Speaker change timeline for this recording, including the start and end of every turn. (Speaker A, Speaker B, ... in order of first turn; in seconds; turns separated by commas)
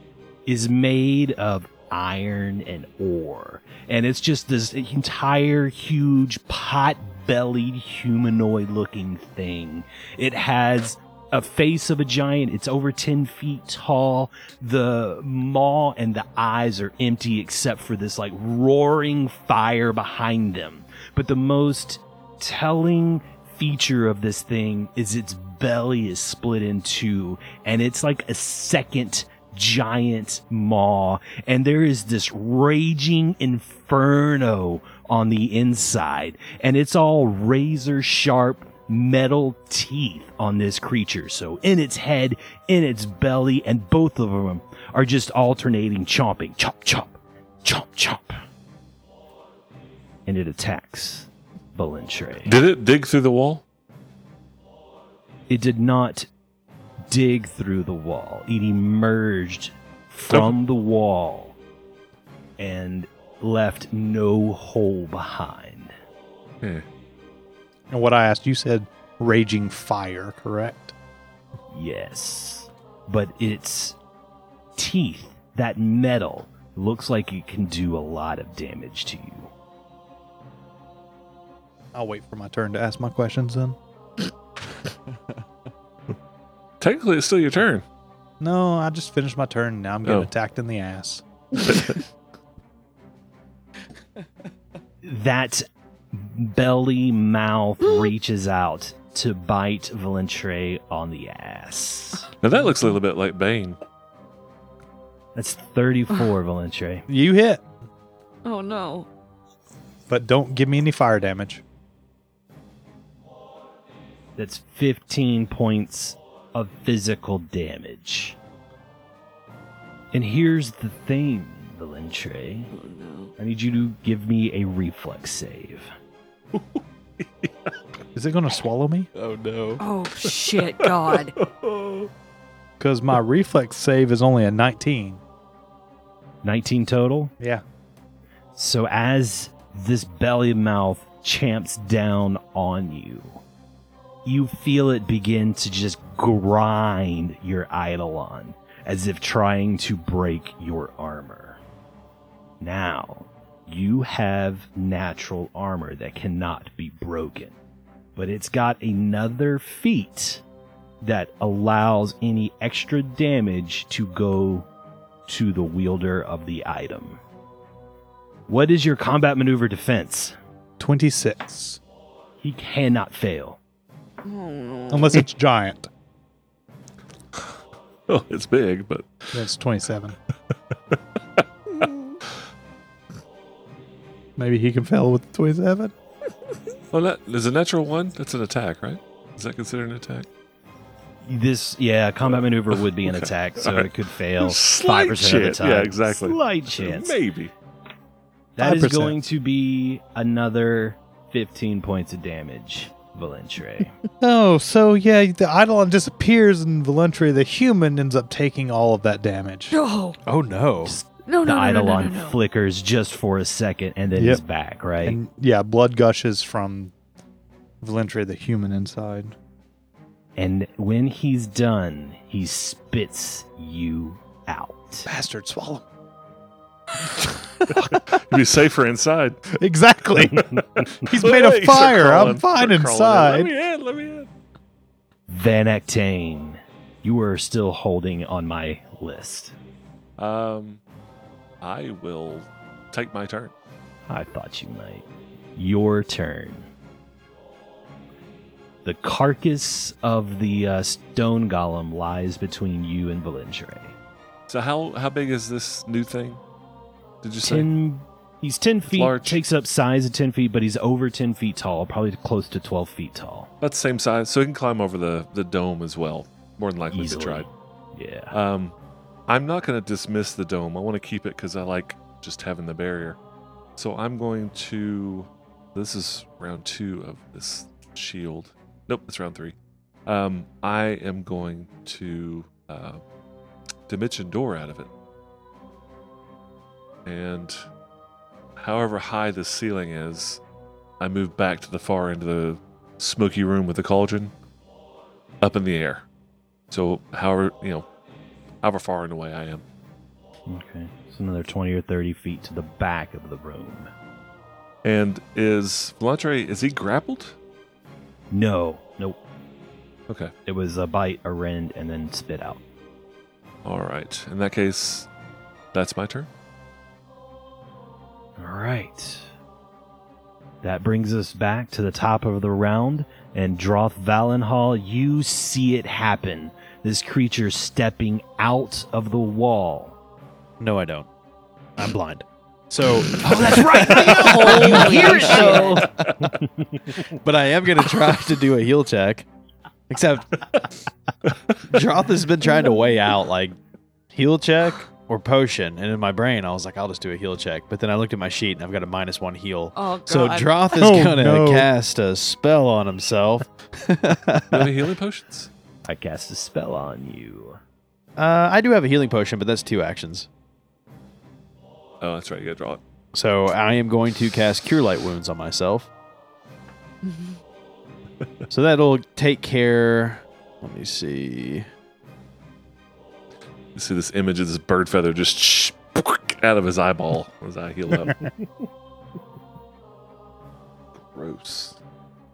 Speaker A: 0.5-48.4, Speaker A: 50.3-52.5, Speaker B: 52.5-53.6, Speaker A: 55.5-56.3, Speaker A: 57.1-61.6, Speaker B: 60.3-60.5, Speaker A: 62.6-65.9, Speaker C: 67.9-71.0, Speaker A: 71.7-74.0, Speaker A: 74.8-79.5, Speaker C: 81.9-83.8, Speaker B: 86.8-87.8, Speaker C: 88.4-91.2, Speaker B: 91.7-92.0, Speaker A: 95.0-102.3, Speaker B: 102.4-103.8, Speaker A: 105.3-107.1, Speaker C: 107.1-107.6, Speaker D: 108.5-109.1, Speaker C: 110.1-111.6, Speaker A: 114.4-118.4, Speaker A: 120.1-122.7, Speaker D: 122.7-123.3, Speaker A: 123.4-125.9, Speaker B: 126.5-127.5, Speaker C: 128.2-129.1, Speaker E: 129.2-129.8, Speaker D: 129.8-131.3, Speaker B: 130.2-132.1, Speaker C: 132.8-135.2, Speaker A: 136.4-137.3, Speaker A: 138.6-143.4, Speaker A: 144.2-151.6, Speaker A: 152.6-157.6, Speaker A: 158.2-160.4, Speaker A: 161.0-164.7, Speaker A: 165.3-167.2, Speaker A: 168.5-170.4, Speaker C: 170.8-171.8, Speaker A: 172.4-173.6, Speaker D: 174.2-175.2, Speaker C: 174.9-175.9, Speaker B: 178.1-179.4, Speaker C: 179.3-180.2, Speaker C: 184.4-185.9, Speaker B: 186.9-190.3, Speaker A: 191.2-197.2, Speaker B: 192.3-197.5, Speaker A: 198.6-203.9, Speaker C: 198.6-199.2, Speaker C: 204.2-209.8, Speaker D: 209.7-210.2, Speaker E: 210.2-211.0, Speaker A: 210.8-215.2, Speaker D: 211.2-212.4, Speaker C: 214.2-214.4, Speaker C: 215.0-216.9, Speaker C: 217.8-219.3, Speaker A: 220.4-225.1, Speaker C: 225.1-225.8, Speaker B: 227.9-229.4, Speaker C: 229.6-230.5, Speaker A: 230.5-230.8, Speaker C: 231.1-233.5, Speaker B: 231.1-234.3, Speaker A: 235.3-239.5, Speaker B: 240.2-240.8, Speaker B: 241.6-243.5, Speaker A: 244.1-246.7, Speaker A: 248.8-253.9, Speaker B: 254.5-256.4, Speaker B: 257.2-257.7, Speaker A: 257.4-263.5, Speaker B: 258.9-259.4, Speaker B: 263.6-267.5, Speaker A: 266.9-268.4, Speaker B: 268.3-268.7, Speaker B: 269.3-273.2, Speaker B: 273.8-279.6, Speaker B: 280.1-283.0, Speaker B: 283.9-284.9, Speaker B: 287.1-287.6, Speaker B: 288.6-290.4, Speaker B: 291.0-294.3, Speaker B: 295.4-296.1, Speaker B: 296.7-297.9, Speaker B: 298.6-299.6, Speaker A: 300.5-303.9, Speaker B: 304.8-307.4, Speaker A: 308.3-309.2, Speaker A: 310.5-312.6, Speaker B: 313.6-315.1, Speaker B: 315.7-316.3, Speaker A: 318.4-319.3, Speaker A: 320.6-330.0, Speaker E: 330.6-331.1, Speaker E: 331.8-335.8, Speaker A: 333.2-337.0, Speaker D: 333.5-335.8, Speaker E: 337.2-339.3, Speaker E: 339.9-340.6, Speaker E: 341.7-343.6, Speaker E: 344.1-354.7, Speaker D: 349.7-350.9, Speaker C: 350.8-351.7, Speaker B: 354.5-355.5, Speaker A: 355.9-357.6, Speaker E: 358.2-360.3, Speaker B: 362.0-362.8, Speaker E: 363.1-365.9, Speaker D: 367.0-367.4, Speaker E: 368.5-371.7, Speaker B: 373.8-378.4, Speaker B: 381.1-381.8